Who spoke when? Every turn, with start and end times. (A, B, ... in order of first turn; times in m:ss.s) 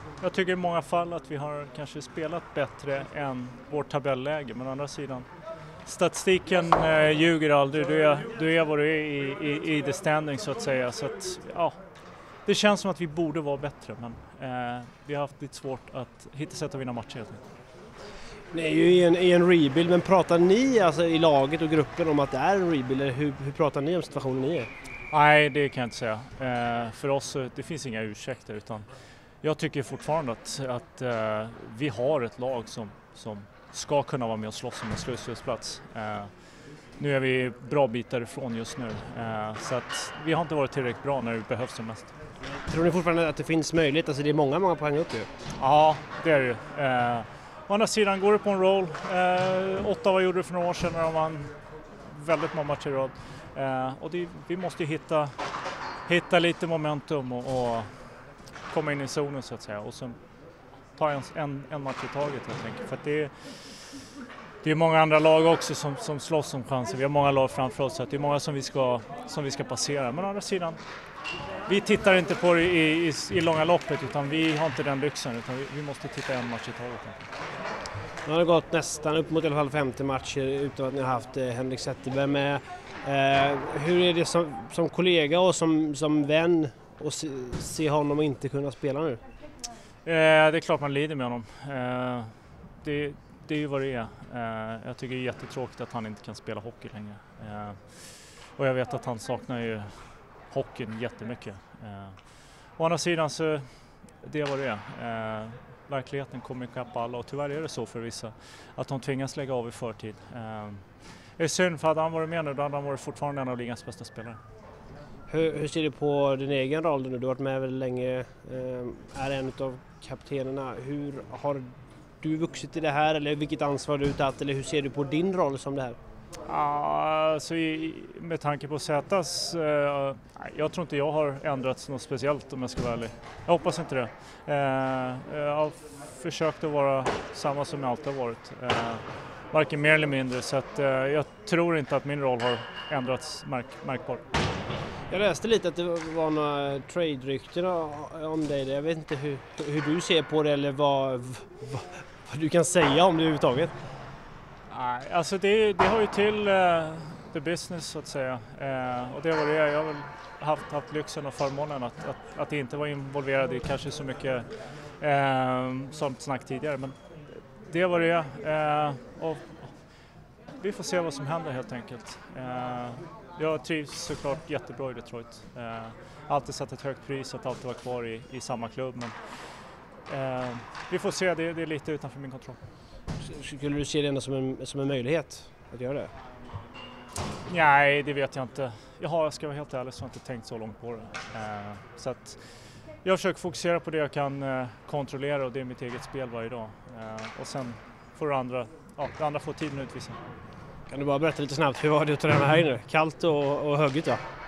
0:00.2-0:05.3 A
0:05.9-0:11.8 A
0:12.5-0:17.4 A
0:18.5-0:24.7 B
0:25.1-0:28.9 A
0:29.4-0:36.3 A
0:37.0-0:42.1 A
0:42.7-0:45.3 B
0:45.6-0:51.5 A
0:52.0-0:55.3 A
0:56.1-0:57.9 A
0:58.7-1:00.2 A
1:01.0-1:03.7 A
1:04.6-1:10.8 A
1:11.7-1:17.2 A
1:18.3-1:29.2 B
1:30.0-1:54.4 A
1:55.3-2:01.7 B
2:02.2-2:06.0 B
2:06.5-2:24.2 A
2:25.1-2:33.7 B
2:34.7-2:44.5 A
2:45.0-2:49.8 A
2:50.6-3:02.6 A
3:03.2-3:06.1 B
3:07.5-3:20.2 A
3:20.9-3:24.2 B